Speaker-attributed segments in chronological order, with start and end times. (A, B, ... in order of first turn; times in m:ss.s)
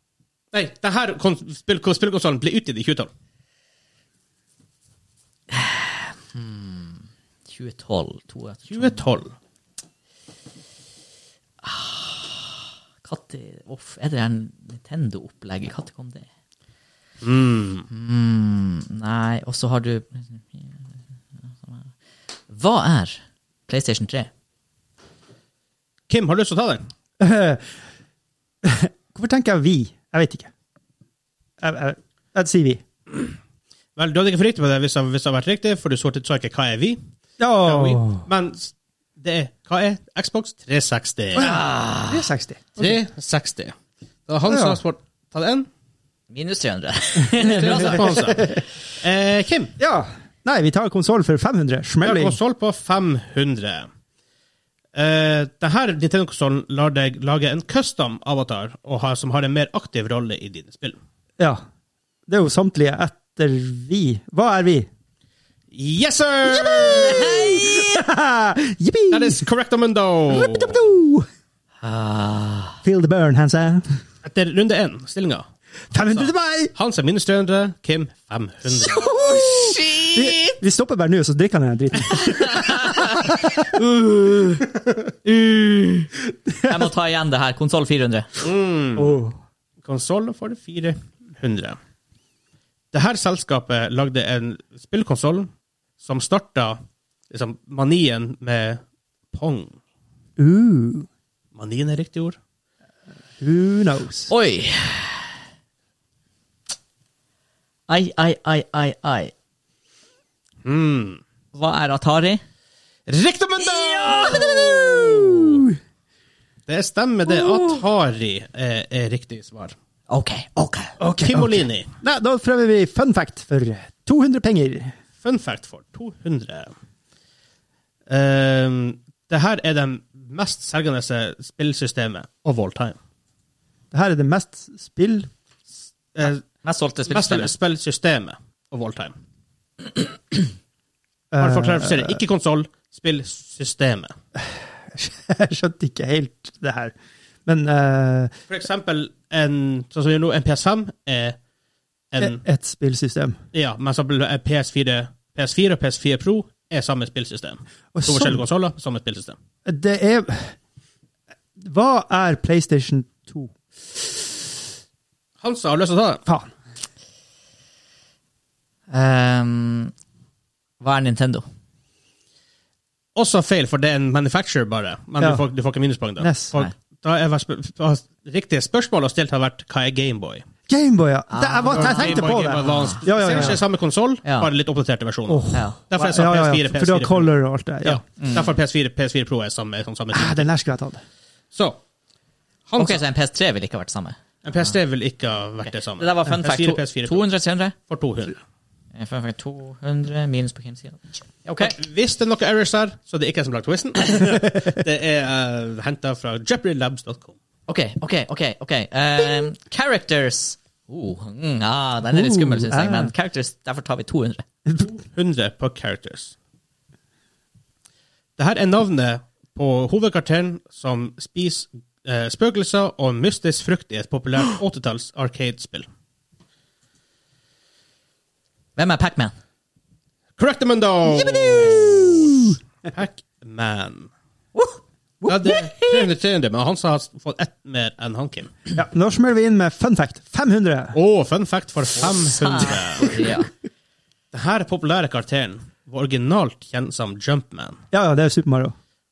0:00.5-0:03.1 A
0:05.5-0:09.0 B
0:08.7-0:09.3 A
0:11.6-0:16.3 B
0:17.2-0:17.9 A
0:17.9-0:20.8 B
0:21.6-0:21.9 B
0:22.5-0:24.3 B
0:26.1-0:26.8 A
0:27.2-0:27.7 C
0:28.6-0:30.5 C
0:31.6-0:32.8 C
0:34.0-0:37.0 A
0:37.4-0:38.2 C
0:37.6-0:41.6 A
0:41.3-0:42.2 B
0:41.4-0:43.0 C
0:42.8-0:43.7 A
0:44.3-0:45.7 A
0:44.5-0:44.8 C
0:46.3-0:48.5 B
0:47.4-0:48.5 A
0:47.4-0:48.6 C
0:49.0-0:49.7 A
0:49.8-0:52.4 C
0:52.0-0:53.9 A
0:54.9-1:01.0 A
1:02.3-1:04.9 C
1:05.7-1:07.4 A
1:06.5-1:09.4 C
1:06.9-1:08.0 B
1:09.1-1:10.9 A
1:10.3-1:11.3 C
1:11.8-1:12.8 B
1:12.8-1:14.0 C
1:14.2-1:19.2 A
1:15.9-1:16.7 C
1:18.7-1:20.6 B
1:19.4-1:23.4 C
1:22.1-1:24.6 B
1:25.2-1:26.1 B
1:26.5-1:26.9 C
1:26.6-1:28.3 B
1:28.4-1:29.2 A
1:29.0-1:29.3 C
1:29.8-1:31.8 A
1:32.9-1:35.5 A
1:36.0-1:36.8 A
1:37.3-1:38.8 A
1:39.3-1:39.8 A
1:40.4-1:41.1 C
1:41.5-1:42.4 A
1:43.4-1:44.3 C
1:44.3-1:45.3 B
1:47.9-1:49.3 B
1:50.6-1:51.2 A
1:51.5-1:52.4 B
1:53.1-1:55.6 A
1:53.6-1:55.2 B
1:54.0-1:55.8 C
1:56.7-1:59.7 A
2:00.1-2:00.9 B
2:01.0-2:04.9 C
2:01.2-2:01.9 A
2:05.2-2:06.7 A
2:08.1-2:13.0 A
2:13.9-2:15.3 C
2:16.1-2:16.4 A
2:16.6-2:17.5 B
2:17.1-2:19.1 A
2:21.3-2:22.2 C
2:21.4-2:24.1 A
2:24.9-2:26.9 C
2:27.4-2:28.3 C
2:28.5-2:31.4 A
2:32.1-2:32.4 A
2:32.2-2:33.4 C
2:33.5-2:39.4 A
2:37.9-2:38.4 C
2:39.6-2:40.5 C
2:41.6-2:44.3 C
2:45.4-2:46.2 A
2:48.9-2:49.9 B
2:50.8-2:51.4 B
2:53.1-3:00.4 A
2:56.2-2:56.5 C
3:00.7-3:03.6 C
3:01.3-3:03.6 B
3:01.6-3:10.5 A
3:04.2-3:04.5 B
3:05.3-3:08.0 C
3:08.2-3:08.5 B
3:10.1-3:11.0 C
3:11.5-3:11.8 A
3:12.7-3:13.0 A
3:12.8-3:14.2 B
3:14.4-3:17.2 A
3:16.0-3:17.7 B
3:17.9-3:18.4 A
3:18.9-3:21.7 B
3:21.6-3:27.3 A
3:27.7-3:34.4 B
3:32.1-3:33.1 C
3:34.8-3:36.3 A
3:38.4-3:45.8 A
3:48.8-3:49.3 B
3:50.4-3:54.1 A
3:51.1-3:52.6 C
3:55.2-3:58.5 A
3:55.3-3:55.9 B
3:58.7-4:01.0 C
4:00.9-4:03.3 A
4:02.1-4:03.5 B
4:04.3-4:07.8 A
4:07.9-4:08.7 C